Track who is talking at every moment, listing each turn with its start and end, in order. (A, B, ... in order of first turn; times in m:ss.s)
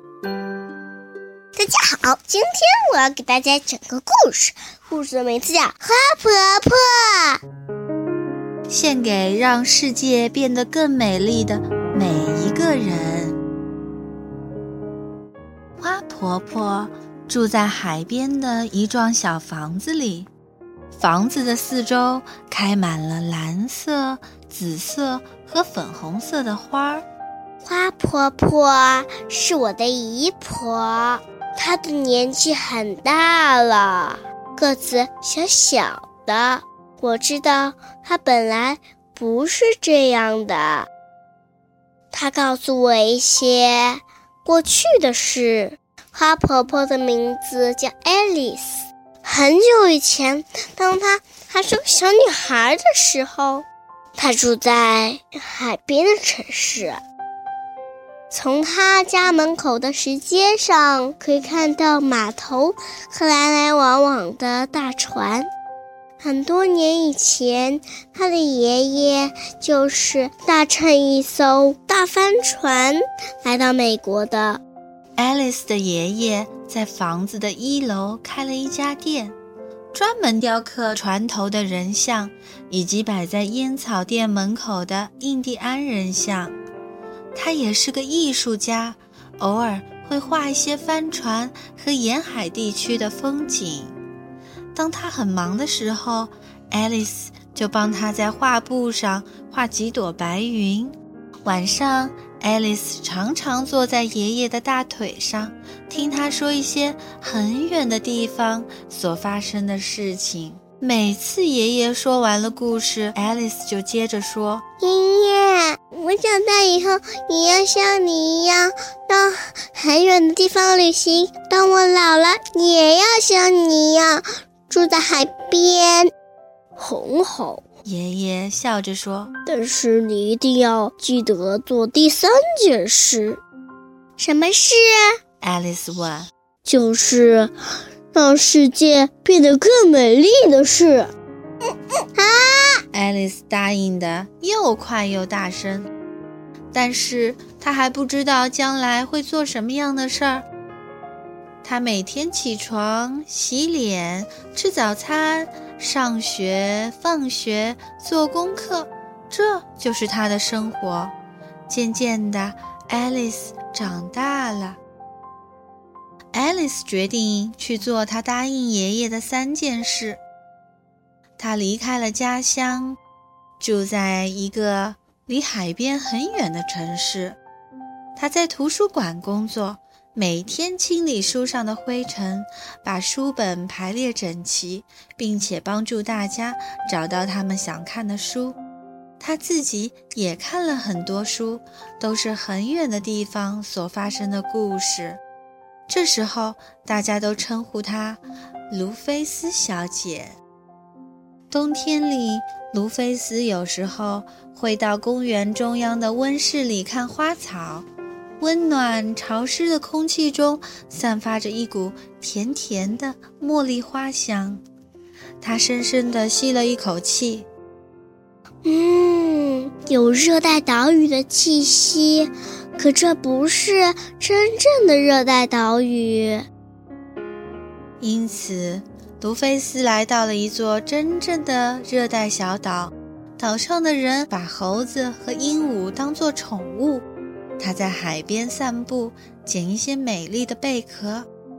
0:01.6-0:07.4 A
0:08.7-0:13.4 B
0:15.8-0:20.3 B
0:21.0-0:27.0 B
0:27.6-0:40.9 A
0:42.1-0:53.6 A
0:54.2-0:57.0 A
0:58.3-1:05.5 A
1:06.2-1:14.6 A
1:15.2-1:19.3 B
1:19.9-1:26.6 B
1:27.3-1:33.9 B
1:34.7-1:54.6 B
1:54.8-2:06.1 A
2:06.8-2:07.6 A
2:07.8-2:09.3 B
2:09.4-2:13.4 A
2:14.2-2:15.2 A
2:15.4-2:16.3 B
2:16.6-2:17.5 A
2:18.1-2:21.1 A
2:22.1-2:22.8 A
2:22.9-2:25.9 B
2:26.7-2:30.4 B
2:31.6-2:41.1 B
2:41.7-2:44.8 B
2:46.3-2:50.2 B
2:51.4-2:53.0 B
2:53.6-2:57.4 B
2:58.2-3:08.6 B
3:09.2-3:15.2 B
3:15.9-3:20.4 B
3:21.5-3:27.9 B
3:28.4-3:34.6 B
3:35.4-3:37.5 B
3:38.6-3:46.5 A
3:48.0-3:57.0 B
3:57.6-4:01.3 B